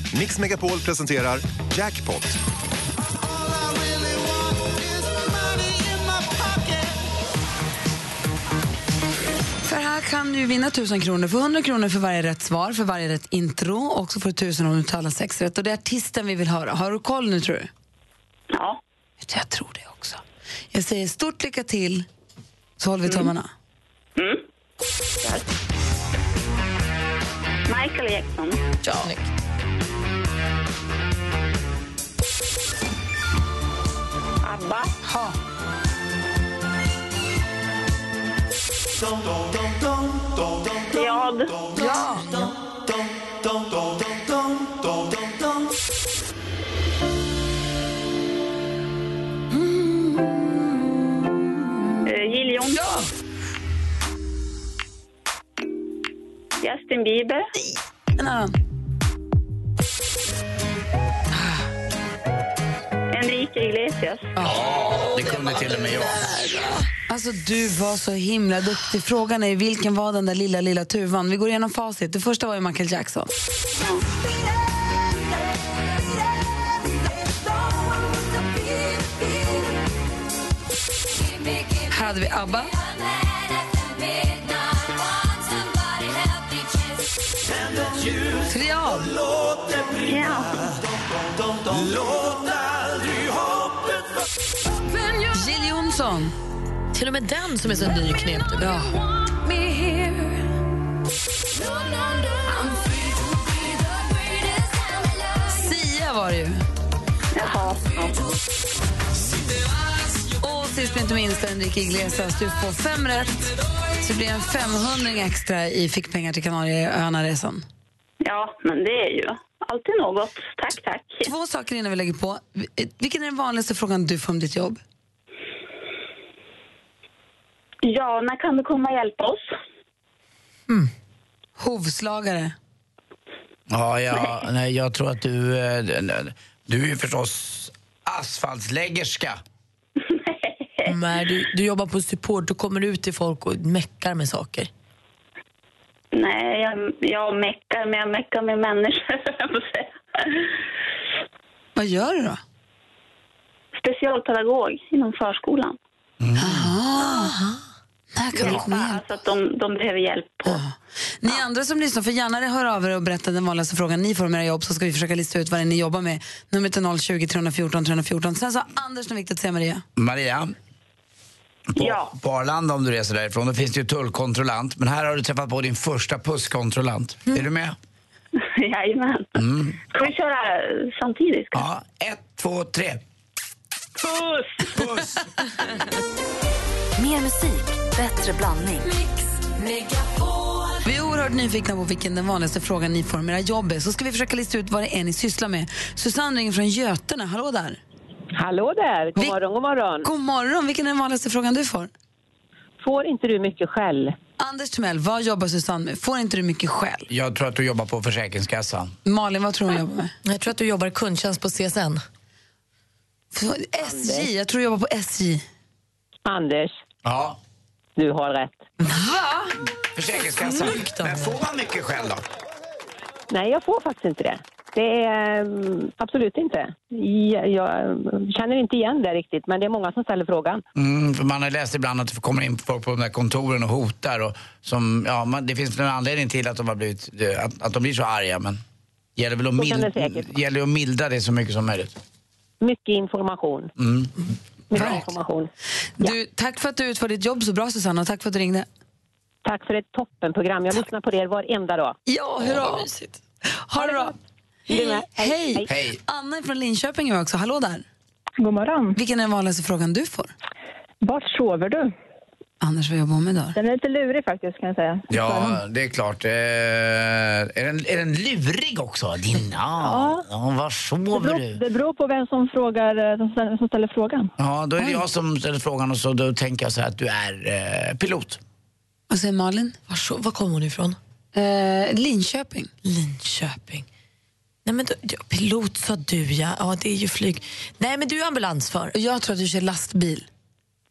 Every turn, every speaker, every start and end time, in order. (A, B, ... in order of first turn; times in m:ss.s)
0:00.1-0:02.4 A
0:09.6-0:17.7 B
0:18.5-0:18.8 C
0:19.2-0:22.1 B
0:22.8-0:23.5 B
0:24.2-0:24.4 C
0:27.7-0:28.6 C
0:28.8-0:29.1 B
0:34.4-0:34.9 C
0:35.0-0:35.4 B
0:40.9-0:41.9 C
0:41.8-0:42.5 B
0:49.6-0:50.4 B
0:52.0-0:53.0 C
0:52.7-0:53.1 B
0:56.6-0:57.5 C
0:57.6-0:58.5 B
1:01.3-1:01.6 B
1:03.1-1:04.3 C
1:04.4-1:06.4 D
1:07.1-1:13.3 B
1:21.9-1:22.7 B
1:28.5-1:29.2 B
1:29.9-1:30.7 C
1:35.3-1:36.4 B
1:36.9-1:38.8 E
1:38.6-1:38.9 B
1:45.5-1:46.6 B
1:47.3-1:48.3 C
1:50.4-1:53.4 B
1:54.0-1:57.6 B
1:58.2-2:01.3 C
2:01.2-2:04.8 B
2:07.8-2:09.5 C
2:11.6-2:12.6 B
2:13.7-2:19.4 D
2:20.1-2:20.9 C
2:20.9-2:24.7 E
2:26.1-2:30.4 C
2:31.8-2:32.4 B
2:33.8-2:35.8 C
2:36.2-2:36.7 D
2:36.4-2:37.4 B
2:37.2-2:37.6 E
2:38.2-2:39.0 B
2:38.4-2:40.6 C
2:40.5-2:49.8 B
2:50.0-2:50.5 D
2:51.8-2:57.8 D
2:51.8-2:52.1 C
2:58.5-2:59.4 C
2:59.4-2:59.8 D
2:59.9-3:01.6 C
3:01.5-3:03.0 D
3:04.0-3:04.5 C
3:04.7-3:05.3 D
3:07.0-3:08.9 F
3:10.8-3:17.8 B
3:18.4-3:20.1 F
3:20.0-3:21.9 B
3:22.8-3:24.1 F
3:24.4-3:27.1 B
3:27.1-3:29.0 D
3:29.1-3:30.1 B
3:30.2-3:32.0 E
3:33.3-3:35.4 B
3:34.0-3:34.3 F
3:36.3-3:36.8 F
3:37.0-3:37.4 D
3:38.0-3:38.6 F
3:38.8-3:39.5 B
3:40.0-3:42.2 D
3:40.4-3:41.4 E
3:43.3-3:50.6 F
3:50.8-3:58.6 D
3:59.2-4:02.0 D
3:59.6-4:00.3 F
4:02.6-4:03.7 F
4:03.8-4:04.1 D
4:04.7-4:05.5 F
4:04.8-4:05.0 B
4:04.8-4:05.0 D
4:06.0-4:08.7 B
4:09.4-4:12.0 F
4:12.1-4:12.9 B
4:12.4-4:13.2 E
4:13.5-4:14.1 B
4:14.7-4:15.7 F
4:14.7-4:17.8 B
4:15.7-4:16.0 D
4:18.4-4:19.0 G
4:19.0-4:20.3 B
4:21.0-4:21.9 G
4:22.6-4:23.6 B
4:23.6-4:25.6 G
4:25.1-4:31.6 D
4:29.8-4:30.2 G
4:31.1-4:34.3 G
4:34.4-4:38.4 D
4:39.1-4:39.8 B
4:39.9-4:41.0 E
4:41.3-4:42.7 B
4:42.8-4:43.9 E
4:44.7-4:48.9 E
4:48.9-4:50.3 B